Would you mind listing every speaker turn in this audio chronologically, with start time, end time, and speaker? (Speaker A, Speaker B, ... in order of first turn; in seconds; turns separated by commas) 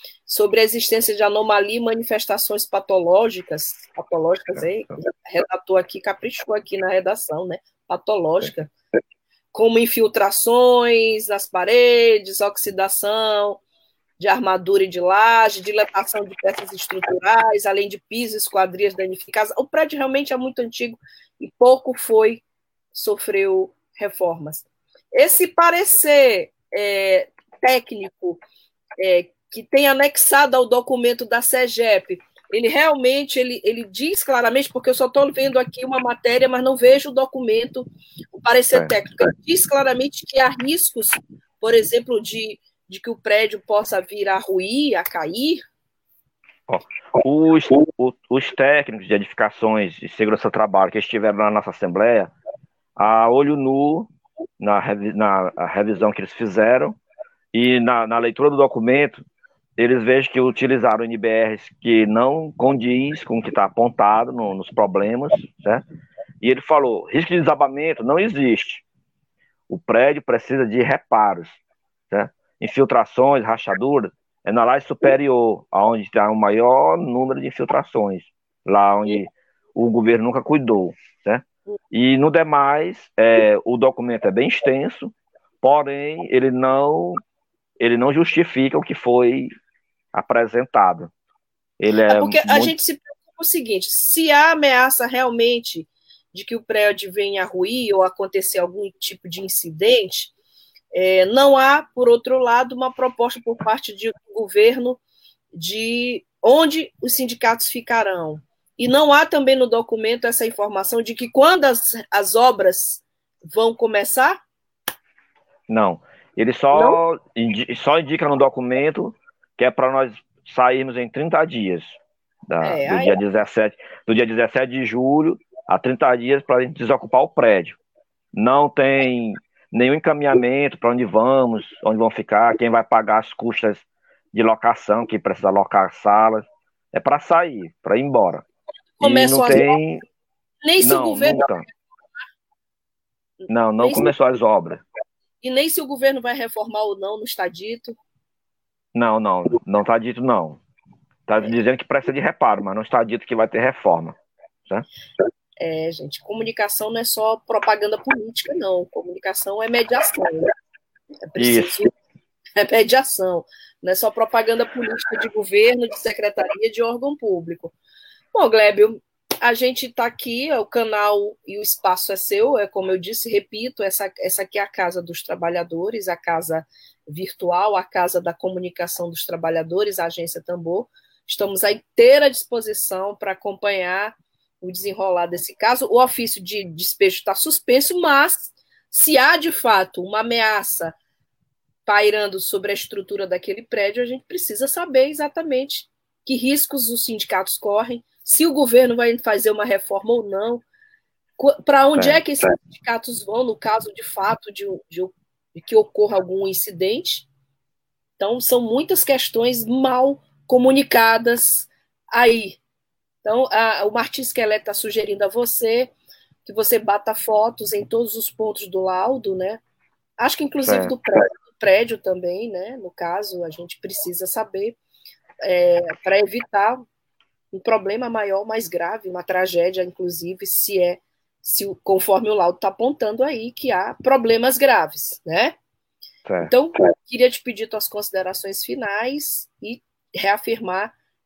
Speaker A: 0.3-8.7, Speaker A: 9.5-13.6, Speaker A: 14.2-22.4, Speaker A: 22.9-28.4, Speaker A: 29.0-45.6, Speaker B: 46.7-52.3, Speaker B: 53.0-57.0, Speaker B: 57.5-59.2, Speaker B: 59.8-65.8, Speaker B: 66.4-68.8, Speaker B: 69.7-71.6, Speaker B: 72.1-87.2, Speaker B: 87.8-89.5, Speaker B: 90.1-91.1, Speaker B: 91.8-92.7, Speaker A: 92.1-100.3, Speaker A: 100.9-105.0, Speaker A: 105.5-114.4, Speaker B: 115.7-127.8, Speaker A: 122.6-123.1, Speaker B: 128.3-138.4, Speaker A: 139.0-139.8, Speaker B: 139.0-140.0, Speaker A: 140.6-141.5, Speaker B: 140.8-141.7, Speaker A: 143.4-144.1, Speaker B: 143.5-144.8, Speaker A: 145.4-147.9, Speaker B: 148.9-150.6, Speaker B: 151.3-154.8, Speaker A: 155.6-160.5, Speaker A: 161.3-161.9, Speaker B: 161.3-161.7, Speaker A: 162.6-167.7, Speaker A: 168.3-190.9, Speaker A: 191.8-200.6, Speaker A: 201.4-207.3, Speaker B: 201.9-202.2, Speaker A: 208.2-212.6, Speaker A: 213.2-215.9, Speaker A: 216.4-219.6, Speaker A: 220.2-224.8, Speaker B: 220.6-220.9, Speaker A: 225.4-226.8, Speaker A: 227.5-235.5, Speaker B: 236.2-236.5, Speaker A: 236.4-240.9